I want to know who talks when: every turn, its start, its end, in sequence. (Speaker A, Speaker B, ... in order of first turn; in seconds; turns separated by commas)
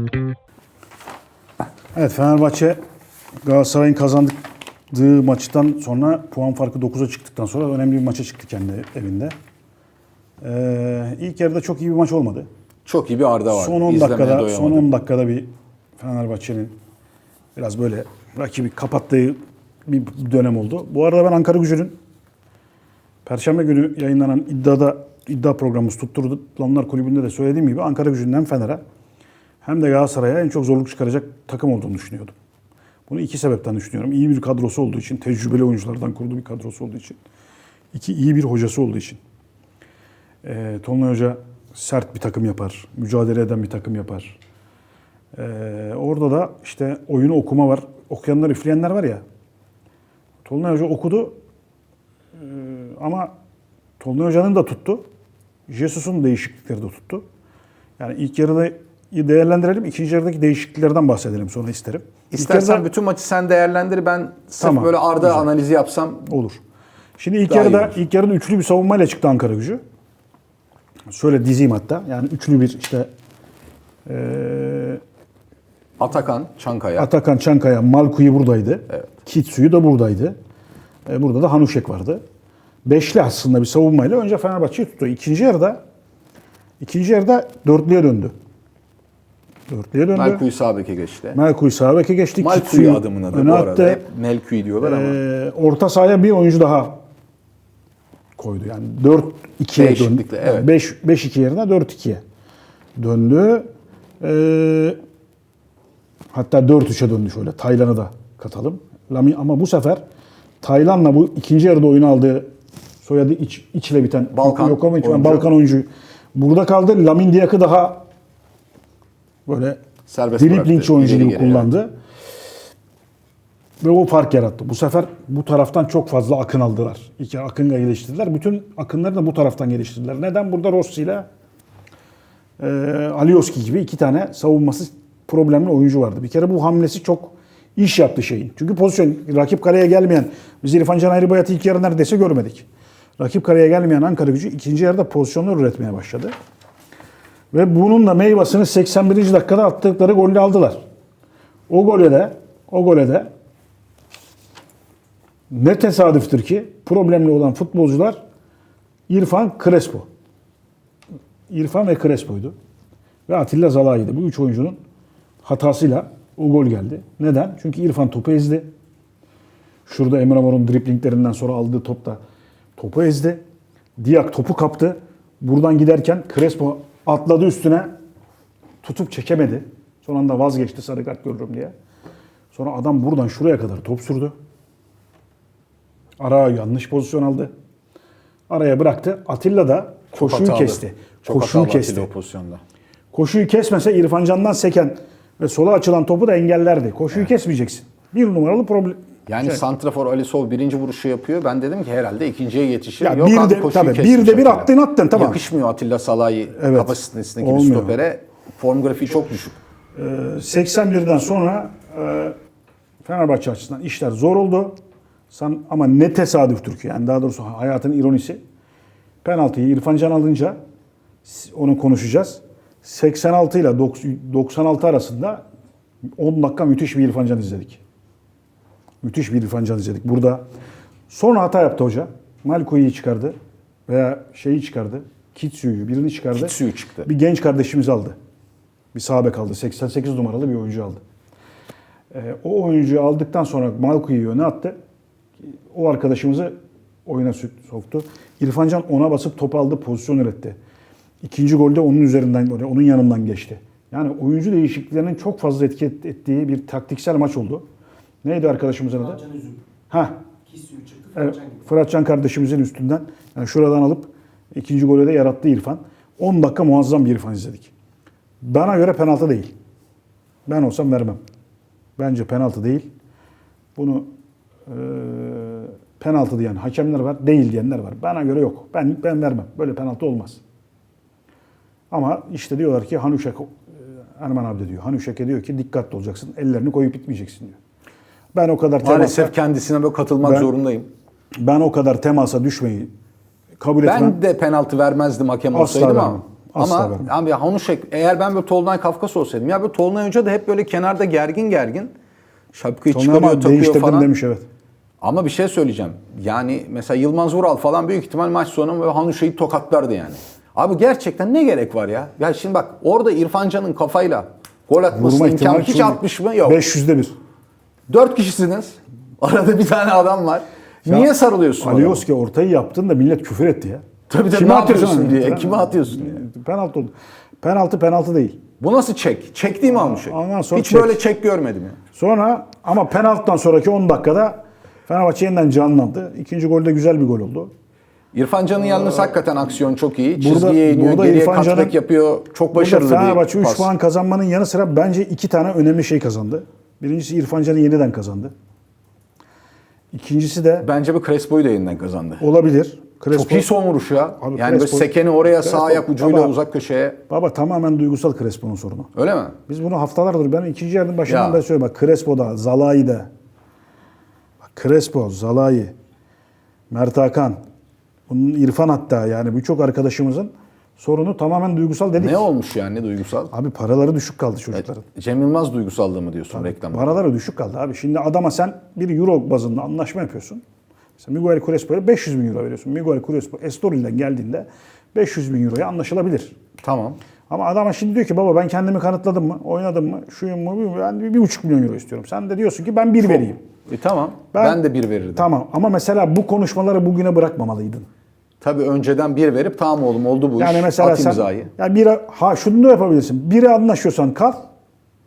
Speaker A: 1.9-2.8, Speaker A: 3.4-4.4, Speaker A: 4.9-9.3, Speaker A: 10.4-12.5, Speaker B: 12.8-14.9, Speaker A: 13.5-16.7, Speaker A: 17.6-22.0, Speaker A: 23.2-28.8, Speaker A: 29.6-32.3, Speaker A: 33.1-37.2, Speaker A: 37.9-39.2, Speaker A: 40.4-44.4, Speaker A: 45.3-49.2, Speaker A: 50.4-51.4, Speaker A: 52.4-53.3, Speaker A: 54.0-55.0, Speaker A: 55.7-57.2, Speaker A: 58.0-62.9, Speaker B: 62.3-66.3, Speaker A: 64.6-65.5, Speaker A: 66.3-66.6, Speaker A: 67.2-69.8, Speaker B: 67.5-68.0, Speaker A: 71.1-73.1, Speaker A: 74.1-75.0, Speaker B: 76.0-77.1, Speaker A: 77.0-80.3, Speaker A: 81.1-82.2, Speaker A: 82.8-85.8, Speaker A: 86.8-88.3, Speaker A: 89.7-90.4, Speaker B: 90.1-91.4, Speaker A: 91.3-94.0, Speaker B: 92.4-95.2, Speaker A: 94.8-97.0, Speaker A: 98.3-102.2, Speaker B: 99.7-100.7, Speaker A: 103.0-103.7, Speaker A: 104.2-105.0, Speaker A: 106.3-110.0, Speaker A: 110.6-112.5, Speaker A: 113.0-118.0, Speaker B: 114.3-115.5, Speaker A: 119.5-119.8, Speaker B: 120.0-121.7, Speaker A: 120.4-121.9, Speaker A: 123.8-131.3, Speaker A: 132.6-142.7, Speaker A: 143.2-146.3, Speaker A: 147.5-150.8, Speaker A: 151.7-153.3, Speaker A: 155.5-158.2, Speaker A: 159.1-160.1, Speaker A: 161.5-162.5, Speaker A: 163.3-164.8, Speaker A: 165.4-168.7, Speaker A: 169.9-172.2, Speaker A: 172.8-173.4, Speaker A: 174.0-177.9, Speaker A: 178.8-181.7, Speaker A: 182.5-184.3, Speaker A: 186.2-187.5, Speaker A: 188.5-192.1, Speaker B: 190.1-192.6, Speaker A: 193.1-199.6, Speaker B: 199.3-209.6, Speaker A: 203.0-205.4, Speaker A: 206.5-208.0, Speaker A: 209.9-212.3, Speaker A: 213.0-214.8, Speaker A: 215.3-218.4, Speaker A: 219.2-220.6, Speaker A: 221.2-225.4, Speaker A: 226.2-227.8, Speaker A: 229.0-230.4, Speaker A: 231.1-233.3, Speaker A: 233.9-238.2, Speaker B: 236.3-237.1, Speaker A: 238.9-241.0, Speaker A: 242.1-244.8, Speaker A: 245.7-246.5, Speaker A: 247.1-250.6, Speaker A: 251.2-257.6, Speaker A: 258.2-259.2, Speaker A: 259.9-260.1, Speaker A: 261.1-267.7, Speaker A: 268.4-269.5, Speaker A: 270.4-271.2, Speaker A: 272.0-272.9, Speaker A: 273.7-274.1, Speaker A: 274.7-280.4, Speaker A: 281.9-287.6, Speaker A: 288.3-289.3, Speaker B: 288.8-290.9, Speaker A: 290.2-290.5, Speaker A: 291.4-292.9, Speaker A: 293.6-294.2, Speaker B: 293.8-301.9, Speaker A: 295.5-297.1, Speaker B: 302.5-304.1, Speaker A: 302.9-304.4, Speaker B: 305.0-316.6, Speaker A: 314.9-317.1, Speaker B: 317.9-322.0, Speaker A: 320.9-328.4, Speaker B: 324.1-326.2, Speaker B: 328.6-331.8, Speaker A: 329.6-331.0, Speaker A: 331.9-337.5, Speaker B: 338.1-343.7, Speaker A: 338.7-339.2, Speaker A: 340.1-341.8, Speaker A: 342.5-348.3, Speaker A: 349.9-350.7, Speaker B: 350.6-352.2, Speaker A: 352.2-353.5, Speaker B: 353.1-357.0, Speaker A: 354.2-356.3, Speaker A: 357.1-358.9, Speaker B: 358.9-359.4, Speaker A: 359.5-363.1, Speaker B: 361.1-361.4, Speaker A: 364.5-365.7, Speaker A: 366.7-367.4, Speaker A: 368.1-372.3, Speaker B: 372.0-373.3, Speaker A: 373.3-374.8, Speaker B: 374.6-377.0, Speaker A: 376.3-380.4, Speaker A: 381.0-386.3, Speaker B: 386.6-387.0, Speaker A: 387.3-393.4, Speaker B: 393.0-395.3, Speaker A: 394.3-394.6, Speaker A: 395.1-397.9, Speaker B: 398.4-401.5, Speaker A: 400.4-404.4